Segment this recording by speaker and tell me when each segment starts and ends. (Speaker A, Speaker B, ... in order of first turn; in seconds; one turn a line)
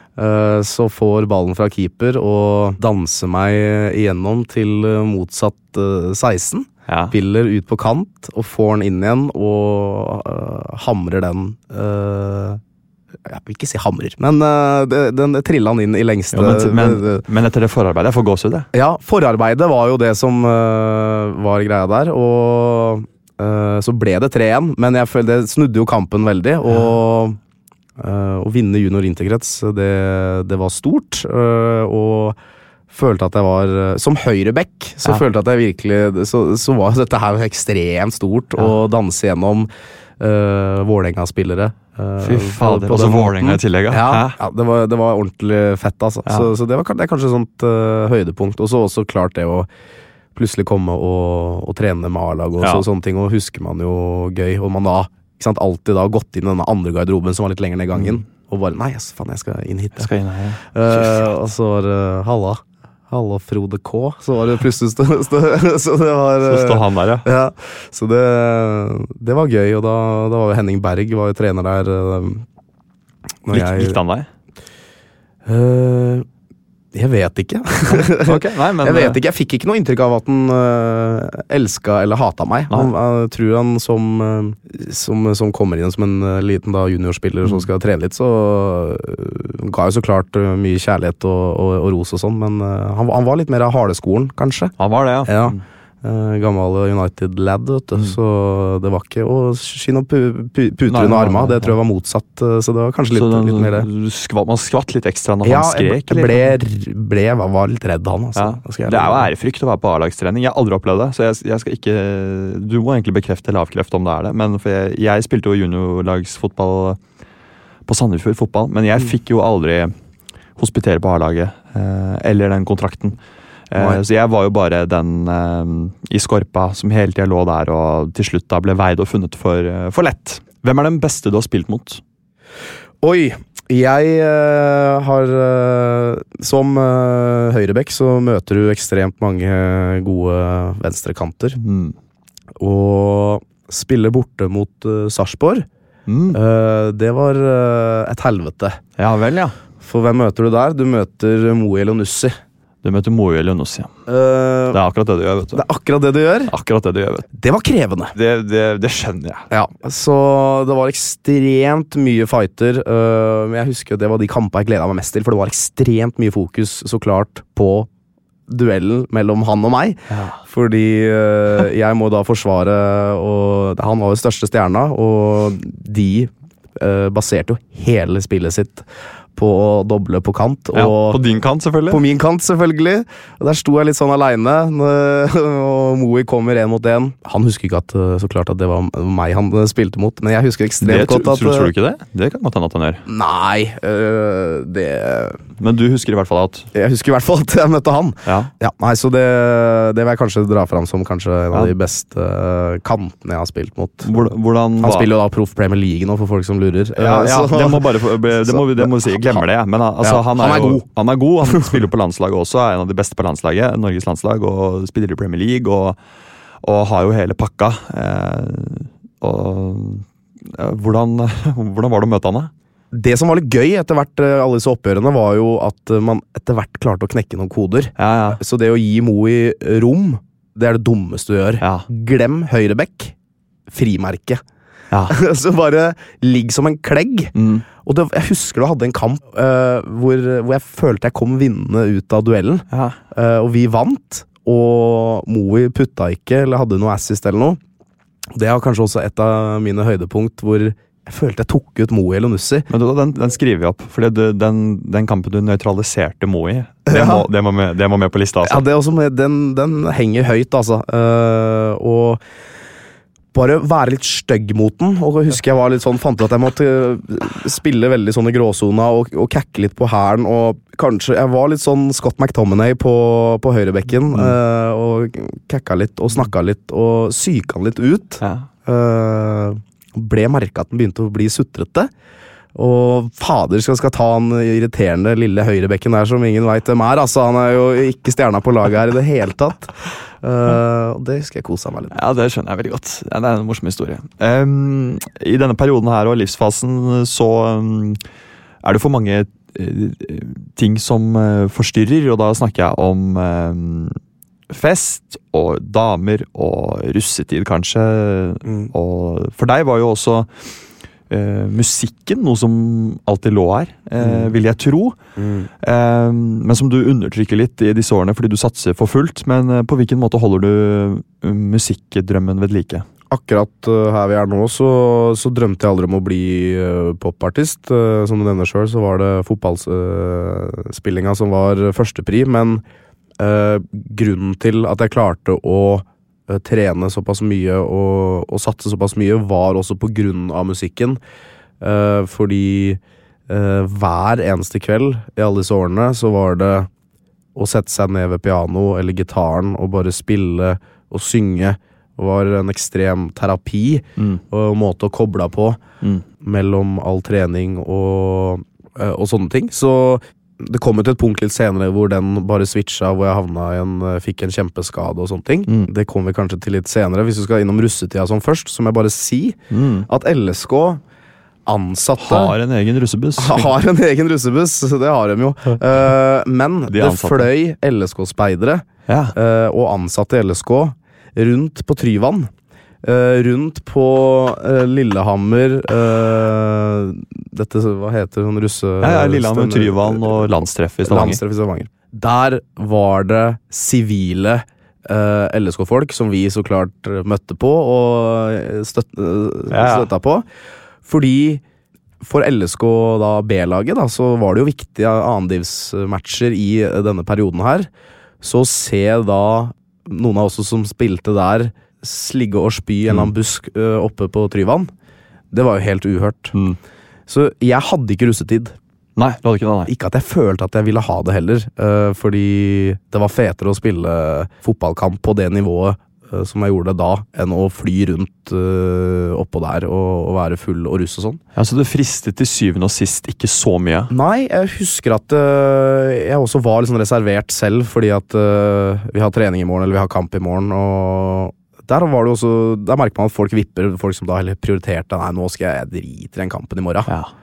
Speaker A: 0.2-12.6
Speaker B: 6.9-7.1
Speaker A: 13.2-17.2
Speaker B: 16.3-18.7
Speaker A: 18.7-27.4
Speaker A: 28.0-32.4
Speaker A: 32.9-39.7
Speaker A: 40.2-49.7
Speaker B: 42.2-44.4
Speaker A: 50.4-60.1
Speaker B: 58.0-58.2
Speaker B: 60.0-61.2
Speaker A: 60.7-72.5
Speaker B: 66.5-67.3
Speaker A: 73.5-74.0
Speaker B: 73.5-74.3
Speaker A: 75.5-76.3
Speaker A: 76.9-94.7
Speaker B: 77.9-79.2
Speaker B: 94.8-95.6
Speaker A: 95.2-103.9
Speaker B: 100.9-101.8
Speaker B: 103.1-106.5
Speaker A: 105.4-109.3
Speaker B: 108.4-117.0
Speaker B: 117.9-119.9
Speaker B: 120.6-123.2
Speaker B: 123.7-132.0
Speaker A: 123.8-124.0
Speaker A: 133.0-141.6
Speaker B: 141.6-141.9
Speaker A: 142.6-145.7
Speaker B: 146.1-146.4
Speaker A: 146.3-148.8
Speaker B: 149.0-149.6
Speaker A: 149.8-152.3
Speaker B: 152.8-153.9
Speaker A: 154.1-154.8
Speaker B: 154.7-155.7
Speaker A: 155.5-156.5
Speaker B: 156.5-157.3
Speaker A: 157.3-158.1
Speaker B: 158.2-159.5
Speaker A: 159.5-167.9
Speaker A: 168.5-181.2
Speaker B: 170.1-170.4
Speaker B: 180.7-182.0
Speaker A: 181.9-191.7
Speaker B: 190.8-193.0
Speaker A: 193.1-195.4
Speaker B: 195.6-196.7
Speaker A: 196.7-209.4
Speaker B: 198.3-198.5
Speaker B: 204.0-205.1
Speaker B: 207.0-216.0
Speaker A: 210.0-210.8
Speaker A: 211.5-211.8
Speaker B: 216.6-222.5
Speaker A: 222.9-233.2
Speaker B: 228.0-228.4
Speaker B: 231.6-231.9
Speaker A: 233.7-234.4
Speaker B: 234.9-235.2
Speaker A: 235.1-247.6
Speaker B: 237.4-237.7
Speaker B: 242.7-243.0
Speaker A: 248.3-252.7
Speaker B: 252.7-258.6
Speaker A: 256.9-257.3
Speaker A: 258.4-262.2
Speaker A: 263.3-281.9
Speaker B: 278.2-278.5
Speaker A: 282.6-292.0
Speaker B: 291.9-298.0
Speaker B: 298.6-304.0
Speaker B: 304.5-310.5
Speaker A: 308.5-308.7
Speaker B: 311.1-314.9
Speaker A: 314.0-314.3
Speaker A: 315.2-315.5
Speaker B: 315.6-322.9
Speaker A: 323.1-332.6
Speaker A: 333.2-341.0
Speaker A: 341.6-346.7
Speaker A: 347.4-355.6
Speaker A: 356.2-370.8
Speaker B: 369.5-369.9
Speaker A: 371.5-372.4
Speaker B: 372.0-373.5
Speaker A: 373.2-382.3
Speaker B: 376.7-377.3
Speaker B: 378.9-379.1
Speaker A: 382.8-400.3
Speaker B: 388.8-391.2
Speaker B: 399.5-399.9
Speaker A: 400.8-401.4
Speaker A: 402.0-407.7
Speaker A: 408.2-414.7
Speaker A: 415.3-416.4
Speaker B: 416.3-416.6
Speaker A: 417.1-418.6
Speaker B: 419.0-419.7
Speaker A: 419.7-431.2
Speaker B: 431.4-433.9
Speaker A: 433.9-446.9